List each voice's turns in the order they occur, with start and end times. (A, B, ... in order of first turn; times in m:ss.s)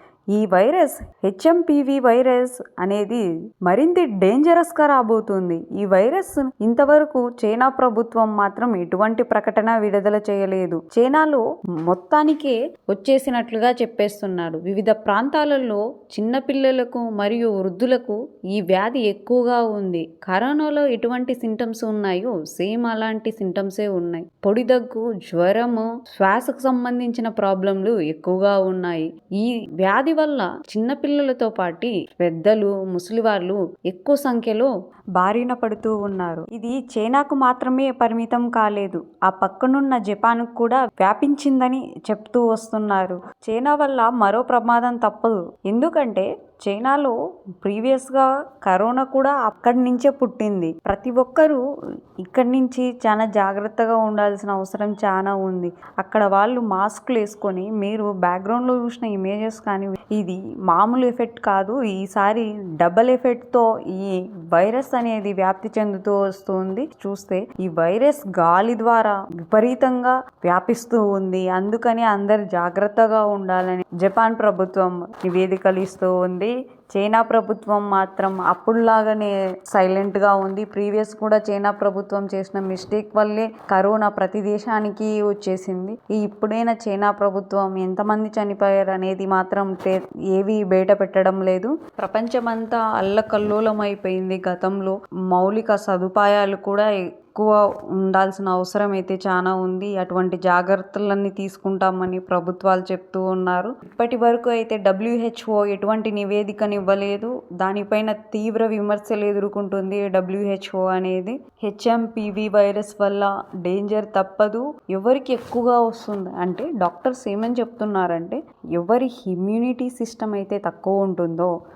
0:00.3-0:51.6 A
0:52.2-2:01.5 A